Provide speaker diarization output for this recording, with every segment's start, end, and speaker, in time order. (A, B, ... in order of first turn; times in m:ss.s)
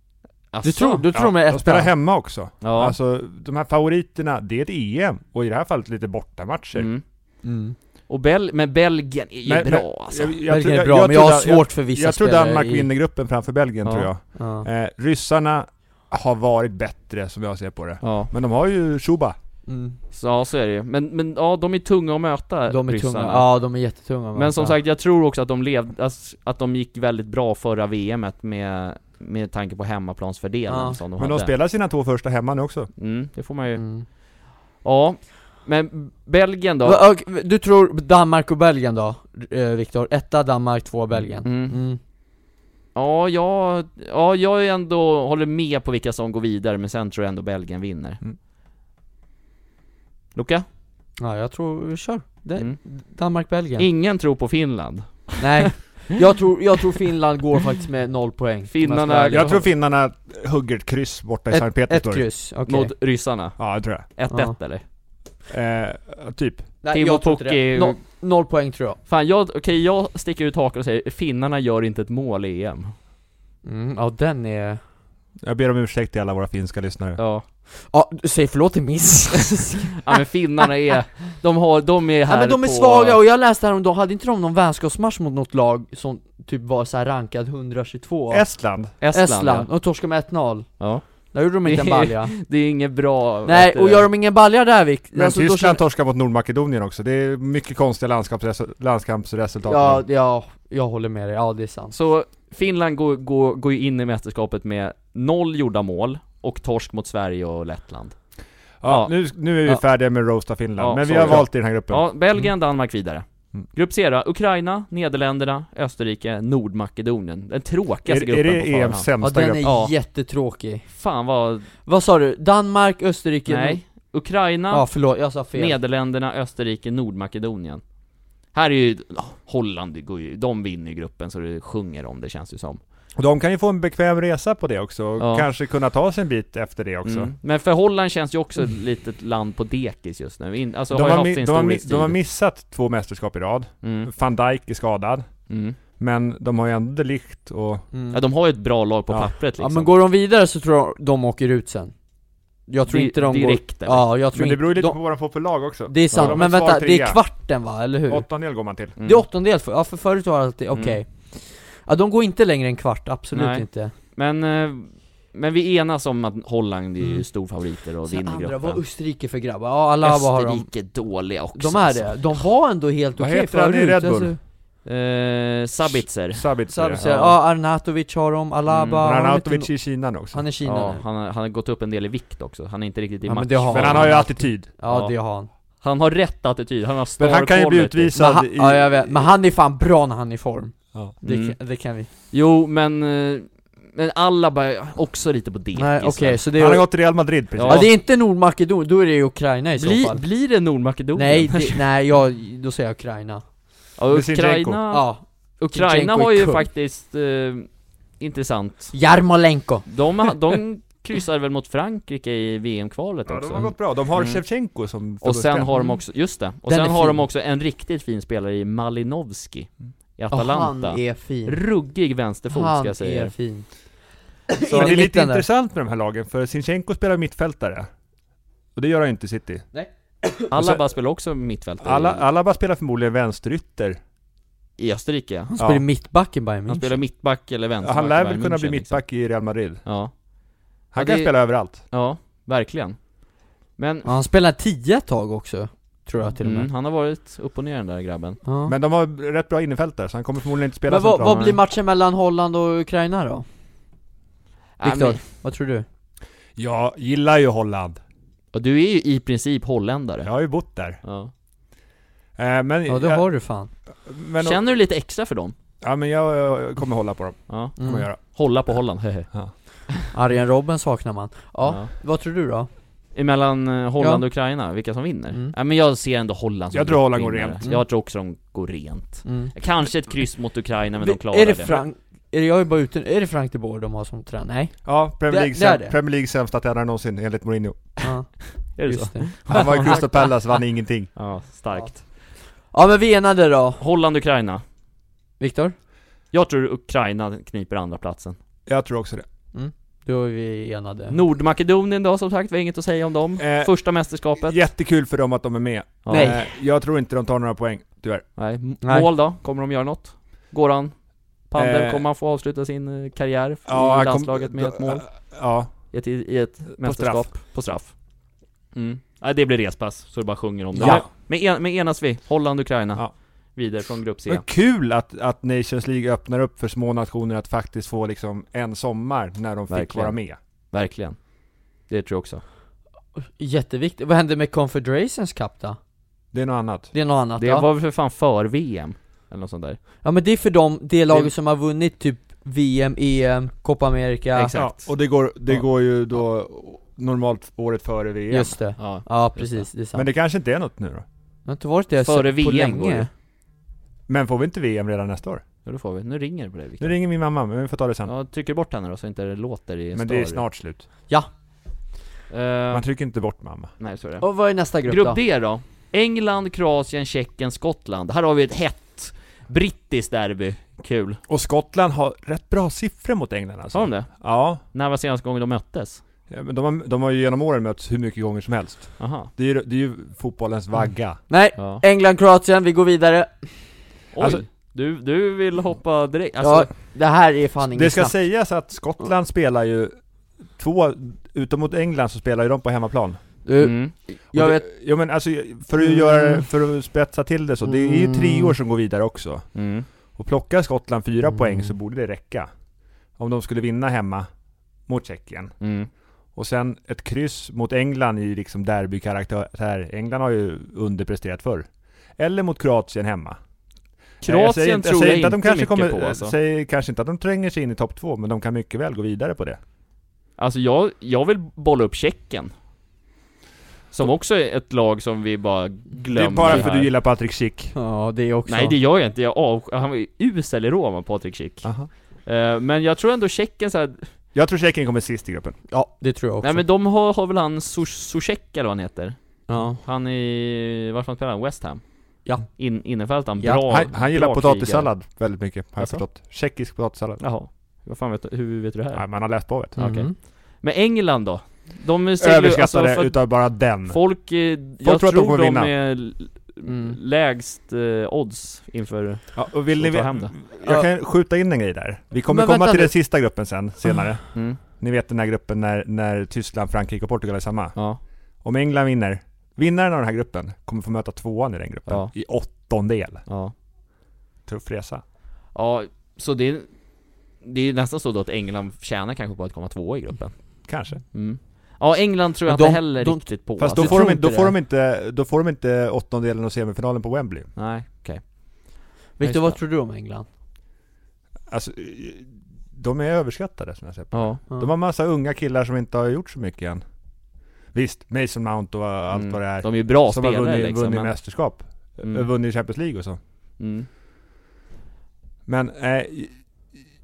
0:00.5-0:01.0 A
0:00.6-0:01.9 B
0:01.1-0:06.9 C
0:02.6-0:03.0 A
0:06.8-0:07.0 A
0:07.4-0:07.8 B
0:08.1-0:10.4 A
0:09.5-0:19.4 C
0:10.5-0:12.9 B
0:13.8-0:14.1 A
0:14.4-0:14.7 B
0:18.0-0:18.3 A
0:19.7-0:20.0 B
0:20.1-0:23.5 A
0:22.7-0:24.8 B
0:24.4-0:31.5 A
0:30.7-0:31.0 B
0:31.2-0:32.9 C
0:33.0-0:33.8 A
0:33.8-0:34.1 B
0:34.8-0:37.0 A
0:36.8-0:42.0 B
0:41.4-0:41.8 A
0:43.0-0:48.2 A
0:50.4-0:50.7 A
0:51.2-0:53.9 B
0:53.8-0:56.0 A
0:55.4-0:59.6 B
0:58.7-0:59.7 A
0:59.3-1:02.3 C
1:01.5-1:02.9 B
1:02.7-1:04.8 A
1:03.6-1:04.1 C
1:04.3-1:04.6 B
1:05.5-1:06.7 C
1:06.8-1:09.0 B
1:06.9-1:08.0 A
1:09.1-1:13.0 A
1:13.6-1:14.8 B
1:15.4-1:17.2 C
1:17.2-1:17.4 A
1:17.8-1:20.7 B
1:20.0-1:23.2 A
1:22.3-1:28.5 B
1:28.3-1:28.9 C
1:29.0-1:29.7 A
1:29.1-1:32.4 B
1:30.8-1:31.1 A
1:31.6-1:34.1 A
1:33.4-1:35.8 B
1:35.2-1:40.0 C
1:39.6-1:42.0 B
1:41.9-1:48.2 A
1:48.8-1:52.0 C
1:48.8-1:49.1 A
1:50.8-1:59.1 A
1:58.1-1:59.7 C
1:59.2-2:00.9 B
1:59.6-1:59.9 A
2:00.9-2:01.7 A
2:01.9-2:03.8 B
2:03.5-2:04.9 A
2:04.7-2:05.8 B
2:05.5-2:07.8 A
2:08.5-2:12.8 A
2:13.2-2:17.3 C
2:15.2-2:15.5 A
2:17.0-2:22.2 A
2:20.9-2:25.2 C
2:23.8-2:24.1 A
2:25.5-2:25.8 A
2:26.0-2:27.8 C
2:27.9-2:28.2 B
2:28.1-2:29.9 A
2:29.6-2:31.9 B
2:32.7-2:35.0 B
2:32.9-2:34.1 A
2:34.3-2:37.2 C
2:35.9-2:38.3 B
2:36.1-2:36.4 A
2:38.1-2:39.0 C
2:39.0-2:39.3 A
2:39.0-2:43.9 B
2:40.7-2:41.0 A
2:43.3-2:48.8 A
2:48.0-2:50.7 B
2:50.0-2:52.4 A
2:51.6-2:54.4 B
2:53.2-2:54.4 C
2:54.8-2:57.4 A
2:55.9-2:57.2 C
2:56.7-3:01.0 B
2:58.7-2:59.0 A
2:59.0-3:00.4 C
3:00.6-3:04.3 A
3:03.2-3:05.5 B
3:03.7-3:04.7 C
3:04.9-3:05.2 A
3:05.8-3:08.1 A
3:07.2-3:09.3 C
3:08.2-3:12.1 B
3:11.2-3:11.6 A
3:12.2-3:16.4 A
3:15.8-3:17.0 B
3:16.6-3:17.9 C
3:17.6-3:17.9 A
3:17.6-3:20.2 B
3:19.8-3:21.8 A
3:21.2-3:23.4 B
3:24.0-3:25.1 A
3:24.1-3:24.8 C
3:24.9-3:26.7 B
3:25.6-3:29.0 A
3:28.9-3:30.3 B
3:29.9-3:34.4 A
3:33.3-3:35.7 C
3:35.2-3:43.3 A
3:36.6-3:37.2 B
3:40.3-3:41.6 B
3:42.5-3:43.7 B
3:44.5-3:45.4 B
3:44.6-3:47.9 C
3:48.8-3:49.6 C
3:49.7-3:50.5 B
3:50.5-3:52.2 A
3:50.6-3:50.8 C
3:51.8-3:54.0 C
3:54.8-3:55.5 A
3:55.5-3:57.0 B
3:55.6-3:55.8 C
3:56.7-3:59.0 A
3:57.8-3:59.8 C
3:59.8-4:00.1 A
4:00.9-4:01.8 C
4:01.0-4:03.0 A
4:03.8-4:04.1 A
4:04.0-4:06.7 B
4:06.4-4:08.4 A
4:08.4-4:08.8 B
4:08.7-4:11.6 C
4:10.9-4:13.5 B
4:11.2-4:11.6 A
4:14.8-4:15.2 A
4:14.8-4:15.9 B
4:16.6-4:18.0 C
4:18.5-4:20.3 A
4:20.2-4:21.0 C
4:21.0-4:21.3 A
4:22.4-4:23.3 C
4:22.9-4:23.7 B
4:24.0-4:24.6 C
4:24.4-4:25.6 A
4:25.8-4:28.2 C
4:27.5-4:29.3 A
4:27.8-4:28.1 B
4:30.1-4:32.7 B
4:31.6-4:31.9 A
4:33.2-4:41.8 A
4:36.7-4:37.6 C
4:39.2-4:39.6 B
4:41.0-4:46.0 B
4:44.8-4:47.9 C
4:48.0-4:50.2 B
4:48.6-4:50.2 A
4:49.5-4:51.1 C
4:51.2-4:52.0 A
4:51.7-4:52.0 B
4:52.7-4:53.8 B
4:53.8-4:54.6 A
4:55.4-4:55.8 B
4:56.3-4:58.4 A
4:58.7-4:59.2 C
4:59.5-5:01.2 B
5:01.1-5:04.6 A
5:03.4-5:03.8 C
5:04.4-5:08.3 C
5:06.0-5:06.4 A
5:06.1-5:06.5 B
5:08.4-5:11.0 A
5:08.8-5:09.1 B
5:11.5-5:15.1 A
5:11.6-5:12.0 C
5:13.7-5:15.7 C
5:15.9-5:18.0 A
5:16.7-5:17.3 C
5:18.8-5:24.4 A
5:20.8-5:21.1 C
5:24.3-5:30.4 C
5:29.7-5:30.2 A
5:30.7-5:31.2 A
5:31.9-5:32.4 A
5:33.4-5:35.8 B
5:36.3-5:36.9 C
5:36.9-5:37.7 B
5:37.4-5:39.8 A
5:40.0-5:44.6 B
5:44.3-5:44.9 A
5:44.5-5:48.6 C
5:48.3-5:50.1 B
5:48.8-5:49.6 A
5:49.9-5:51.0 C
5:51.5-5:53.1 B
5:52.0-5:53.1 A
5:54.1-5:55.4 C
5:55.6-5:57.0 A
5:56.8-5:58.1 C
5:58.1-6:00.4 A
6:00.0-6:00.9 C
6:02.3-6:02.9 A
6:02.7-6:03.7 C
6:03.8-6:04.2 A
6:04.2-6:05.2 B
6:04.8-6:11.2 A
6:11.3-6:14.6 C
6:13.7-6:16.0 A
6:16.3-6:21.2 C
6:19.0-6:19.3 A
6:21.3-6:23.7 B
6:21.6-6:21.8 A
6:24.1-6:26.7 A
6:24.2-6:24.4 C
6:26.4-6:28.2 B
6:27.7-6:30.0 C
6:30.5-6:33.2 C
6:33.4-6:34.7 B
6:33.6-6:33.9 A
6:34.3-6:39.6 C
6:35.8-6:36.5 B
6:37.6-6:38.6 B
6:39.6-6:39.9 A
6:40.2-6:42.5 C
6:43.2-6:44.3 C
6:44.9-6:45.5 C
6:45.6-6:45.9 A
6:46.4-6:51.6 C
6:52.2-6:53.4 C
6:54.2-6:56.3 A
6:54.2-6:59.6 C
7:00.4-7:02.5 A
7:03.9-7:06.9 A
7:06.1-7:07.7 C
7:07.7-7:08.8 B
7:08.5-7:11.7 A
7:11.6-7:11.9 C
7:12.2-7:14.1 A
7:14.3-7:15.6 C
7:15.7-7:16.6 B
7:16.4-7:19.2 A
7:19.5-7:19.8 B
7:19.8-7:21.8 A
7:22.2-7:22.5 B
7:22.4-7:24.9 A
7:23.7-7:27.2 C
7:27.2-7:29.0 A
7:28.9-7:29.8 C
7:29.7-7:33.2 A
7:29.8-7:30.1 B
7:32.2-7:34.0 C
7:33.9-7:40.3 A
7:34.8-7:35.7 C
7:36.7-7:37.0 B
7:39.4-7:47.8 C
7:42.3-7:43.0 B
7:44.3-7:44.6 A
7:47.8-7:48.0 A
7:48.4-7:53.2 C
7:51.9-7:52.1 A
7:53.3-7:53.5 A
7:54.5-7:55.0 C
7:55.6-7:56.7 A
7:57.4-8:04.0 A
8:00.7-8:01.0 C
8:02.5-8:04.5 B
8:03.6-8:07.5 C
8:07.6-8:08.4 A
8:09.2-8:10.3 B
8:09.2-8:09.6 A
8:11.5-8:16.8 C
8:14.1-8:14.4 A
8:17.7-8:23.2 C
8:19.1-8:21.1 A
8:22.0-8:22.3 A
8:23.6-8:23.9 A
8:25.5-8:26.4 C